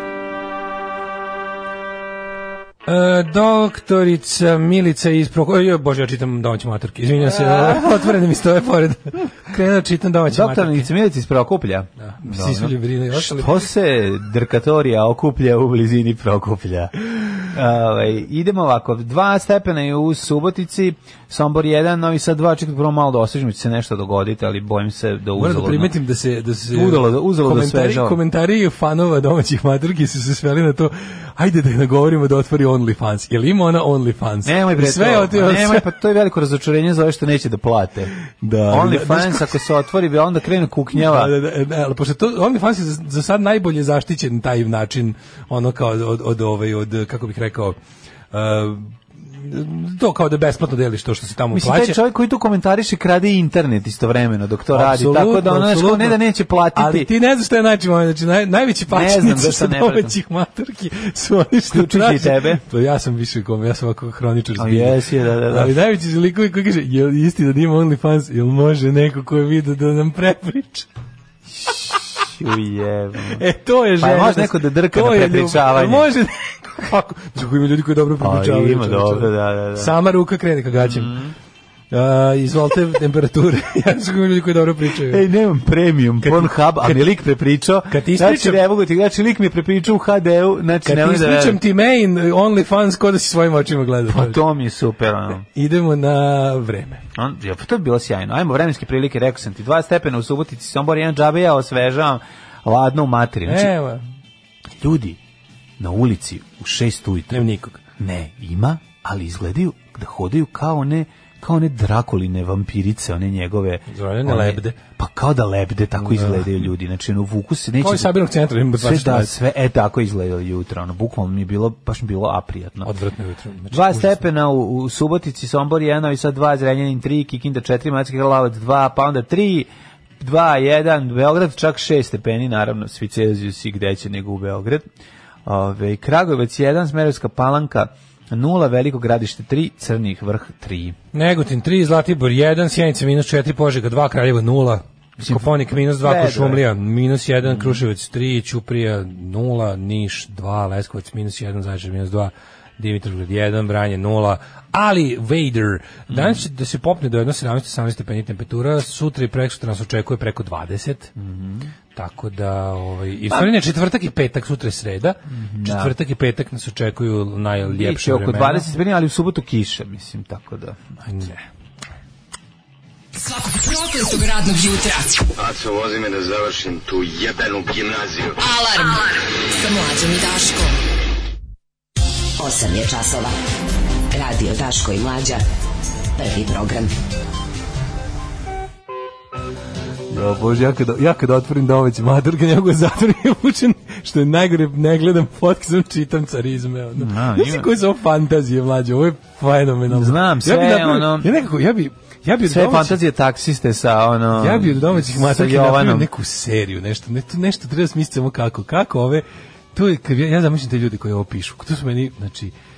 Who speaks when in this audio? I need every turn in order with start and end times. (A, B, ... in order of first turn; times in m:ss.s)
0:02.9-0:10.9 A
0:07.2-0:08.0 B
0:10.3-0:25.9 B
0:12.0-0:13.7 A
0:25.4-0:35.9 A
0:26.7-0:28.2 B
0:34.4-0:38.1 B
0:38.4-0:39.6 A
0:38.7-0:41.3 B
0:41.0-0:47.8 A
0:48.3-0:52.0 A
0:51.5-0:57.1 B
0:54.7-0:56.2 A
0:56.7-1:10.9 A
0:58.9-1:00.2 B
1:01.7-1:02.6 B
1:04.6-1:05.8 B
1:11.6-1:13.4 B
1:13.4-1:21.2 A
1:14.0-1:16.1 B
1:18.2-1:19.9 B
1:20.8-1:21.3 B
1:21.9-1:25.2 A
1:25.0-1:31.6 B
1:26.2-1:27.0 A
1:27.9-1:28.6 A
1:30.8-1:34.4 A
1:34.1-1:35.5 B
1:35.5-1:37.0 A
1:37.2-1:43.7 B
1:43.5-1:44.0 A
1:44.8-1:45.2 B
1:45.8-1:47.4 B
1:47.3-1:47.8 A
1:48.0-1:58.1 B
1:53.9-1:54.8 A
1:56.0-1:56.5 A
1:57.8-1:59.3 A
1:58.8-2:02.9 B
2:02.8-2:04.2 A
2:03.7-2:09.7 B
2:10.2-2:14.9 B
2:15.5-2:21.0 B
2:21.1-2:41.1 A
2:25.2-2:26.6 B
2:27.4-2:27.8 B
2:36.1-2:36.4 B
2:41.2-2:41.7 B
2:42.0-2:48.7 A
2:45.3-2:45.9 B
2:47.6-2:50.8 B
2:51.0-2:51.4 A
2:53.1-2:55.2 C
2:55.4-2:58.4 D
2:58.4-3:00.8 C
3:02.4-3:03.4 E
3:04.1-3:05.4 E
3:06.2-3:06.9 E
3:10.1-3:23.0 A
3:17.0-3:17.7 B
3:19.9-3:21.3 B
3:22.4-3:26.1 B
3:24.4-3:32.5 A